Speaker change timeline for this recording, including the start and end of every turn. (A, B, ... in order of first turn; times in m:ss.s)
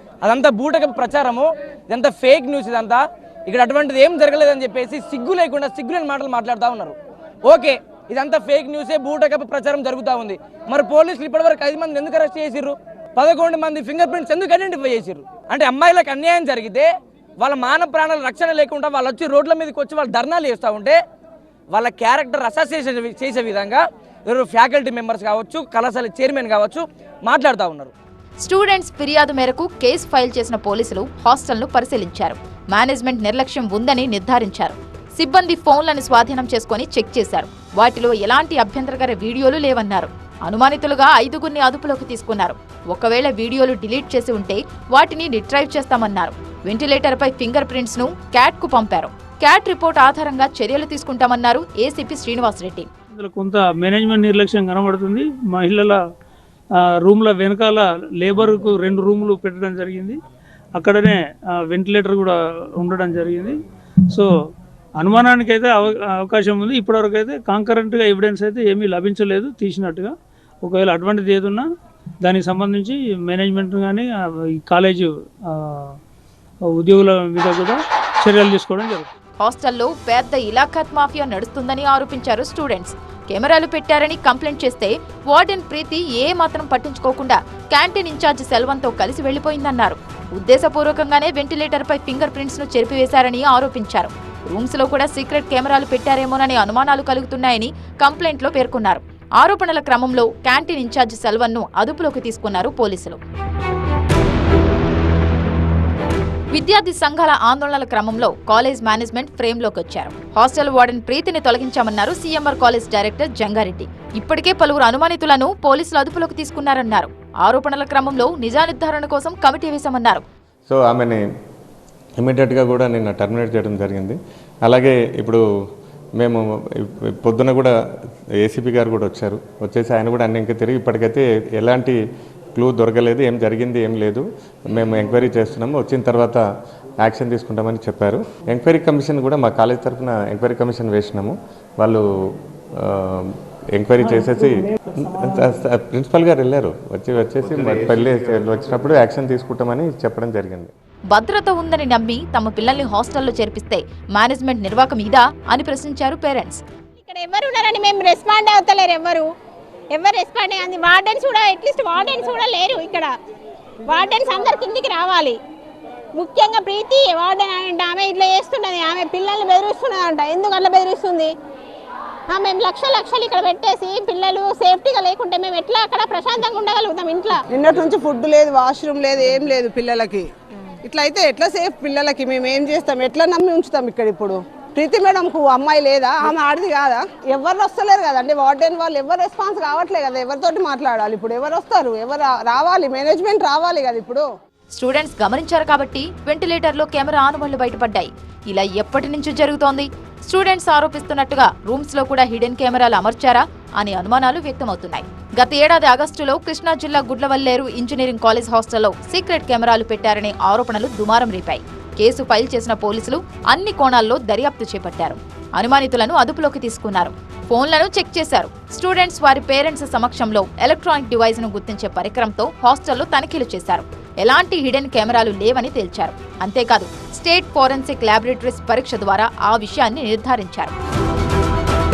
0:00.2-0:21.0 A
0:21.7-0:27.9 A
0:28.4-0:52.9 B
0:53.1-0:56.0 C
0:56.8-1:00.2 C
1:00.8-1:04.3 C
1:05.0-1:11.7 C
1:12.2-1:16.0 C
1:16.7-1:19.1 C
1:19.4-1:43.2 B
1:46.5-2:00.2 B
2:00.7-2:01.2 D
2:02.2-2:05.4 D
2:06.2-2:07.7 D
2:08.4-2:12.0 D
2:12.6-2:16.4 D
2:17.0-2:22.0 D
2:22.8-2:30.7 D
2:31.1-2:36.6 B
2:37.0-2:39.3 E
2:39.9-2:43.2 E
2:43.9-2:45.4 E
2:46.2-2:51.3 E
2:52.3-2:57.4 E
2:57.5-3:00.3 F
3:00.8-3:14.3 F
3:14.7-3:50.8 B